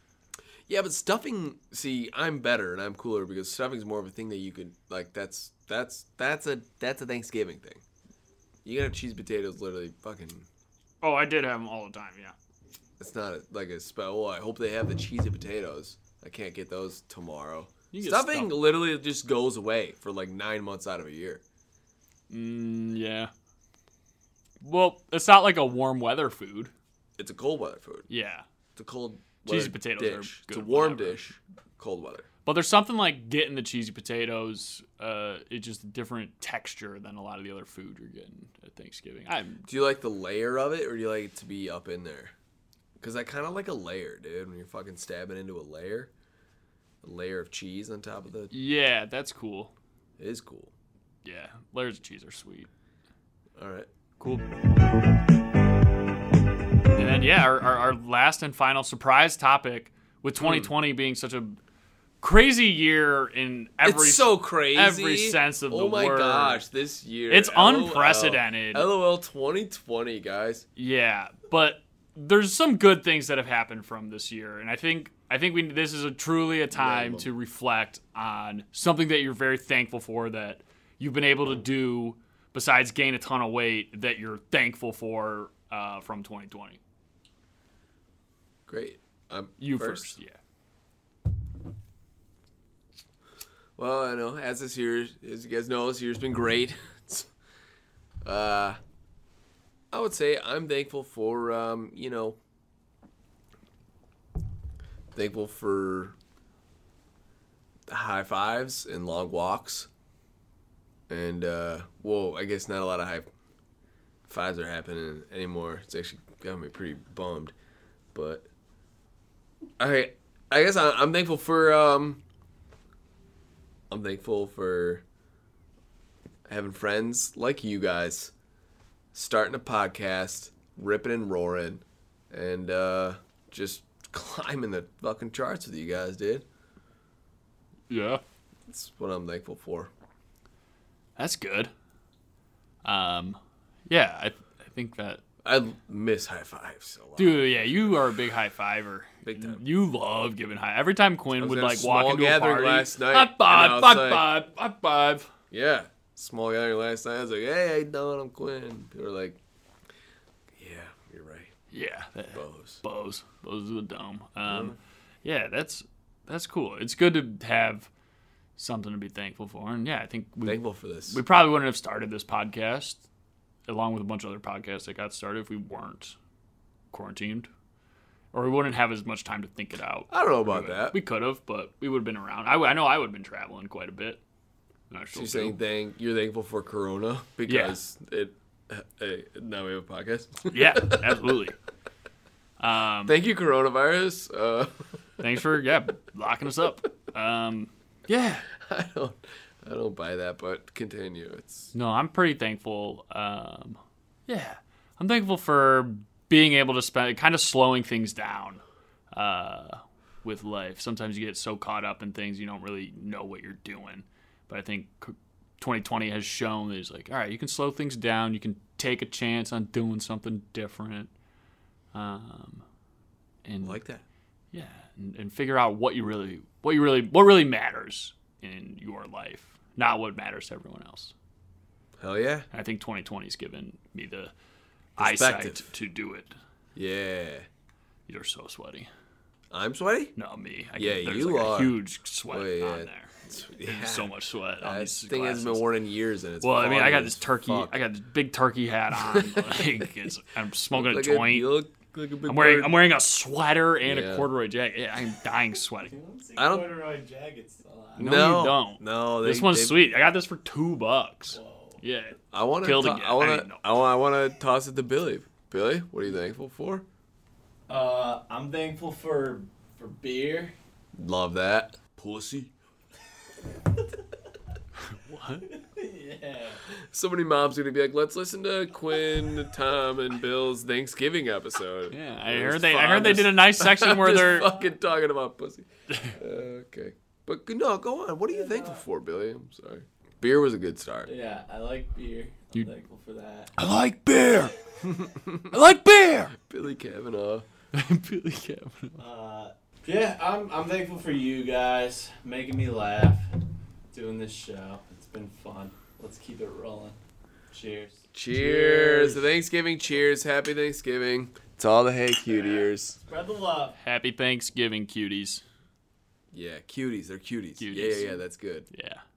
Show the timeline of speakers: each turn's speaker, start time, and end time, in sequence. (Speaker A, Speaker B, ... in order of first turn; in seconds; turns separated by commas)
Speaker A: 0.7-7.8, Speaker A: 8.6-10.5, Speaker B: 11.0-12.3, Speaker A: 13.0-21.4, Speaker B: 17.9-18.6, Speaker B: 22.3-23.3, Speaker B: 24.6-26.7, Speaker A: 27.2-28.1, Speaker B: 28.1-28.4, Speaker A: 28.8-32.2, Speaker B: 29.4-31.3, Speaker B: 32.4-39.6, Speaker A: 39.7-42.3, Speaker A: 43.0-46.1, Speaker A: 47.0-48.5, Speaker B: 48.5-49.7, Speaker A: 50.2-50.7, Speaker B: 51.2-52.7, Speaker A: 53.6-53.9, Speaker B: 54.2-54.4, Speaker B: 56.9-61.6, Speaker A: 60.4-60.7, Speaker B: 62.2-66.7, Speaker A: 63.8-70.6, Speaker B: 67.3-68.9, Speaker B: 70.8-86.8, Speaker A: 76.7-77.3, Speaker A: 88.7-90.2, Speaker B: 89.6-90.4, Speaker A: 93.8-97.3, Speaker A: 98.2-98.8, Speaker A: 99.9-102.4, Speaker A: 105.1-106.2, Speaker A: 107.9-109.9, Speaker A: 111.1-113.3, Speaker A: 114.3-117.5, Speaker A: 118.1-118.5, Speaker A: 119.8-122.2, Speaker A: 123.9-125.0, Speaker A: 126.5-128.3, Speaker A: 129.1-136.4, Speaker B: 137.9-138.2, Speaker A: 138.7-139.9, Speaker B: 141.2-141.7, Speaker B: 142.8-145.2, Speaker A: 145.4-148.0, Speaker B: 147.2-155.3, Speaker A: 149.2-149.6, Speaker A: 151.4-154.3, Speaker A: 155.5-159.4, Speaker A: 160.6-161.5, Speaker B: 161.7-167.9, Speaker A: 162.3-162.8, Speaker A: 164.4-164.8, Speaker B: 168.6-173.0, Speaker A: 170.4-171.2, Speaker B: 173.7-176.2, Speaker B: 176.9-177.5, Speaker B: 178.3-184.2, Speaker A: 180.1-181.0, Speaker B: 184.9-185.6, Speaker A: 185.1-191.3, Speaker B: 187.5-187.8, Speaker B: 190.5-191.6, Speaker B: 192.6-193.2, Speaker A: 193.1-194.8, Speaker B: 195.2-198.4, Speaker A: 198.6-201.7, Speaker B: 201.7-208.6, Speaker B: 209.1-221.1, Speaker B: 221.9-222.6, Speaker B: 223.4-223.8, Speaker A: 223.6-224.0, Speaker B: 224.5-231.1, Speaker A: 232.0-232.5, Speaker B: 232.5-234.3, Speaker B: 235.0-236.3, Speaker A: 235.0-235.7, Speaker A: 236.7-237.4, Speaker B: 238.1-238.9, Speaker A: 239.5-240.1, Speaker B: 240.2-245.7, Speaker A: 240.8-241.8, Speaker A: 242.3-247.9, Speaker B: 246.4-251.5, Speaker A: 249.1-249.8, Speaker A: 250.7-252.8, Speaker B: 252.2-255.9, Speaker A: 253.8-254.3, Speaker C: 255.8-258.2, Speaker A: 256.4-256.7, Speaker A: 258.0-259.8, Speaker B: 258.0-263.6, Speaker C: 261.3-261.8, Speaker A: 262.3-266.8, Speaker C: 267.7-270.5, Speaker A: 270.9-272.5, Speaker B: 274.8-275.5, Speaker C: 275.5-276.6, Speaker A: 276.6-291.1, Speaker B: 281.9-284.5, Speaker B: 285.9-286.2, Speaker C: 288.3-288.8, Speaker C: 291.0-293.5, Speaker B: 293.6-294.5, Speaker A: 294.8-295.5, Speaker B: 295.5-296.3, Speaker A: 296.3-297.4, Speaker B: 297.7-299.0, Speaker C: 299.0-303.3, Speaker C: 303.9-307.0, Speaker C: 307.5-309.2, Speaker A: 308.1-313.0, Speaker C: 313.1-313.7, Speaker B: 313.8-315.4, Speaker A: 316.3-318.7, Speaker B: 317.6-319.0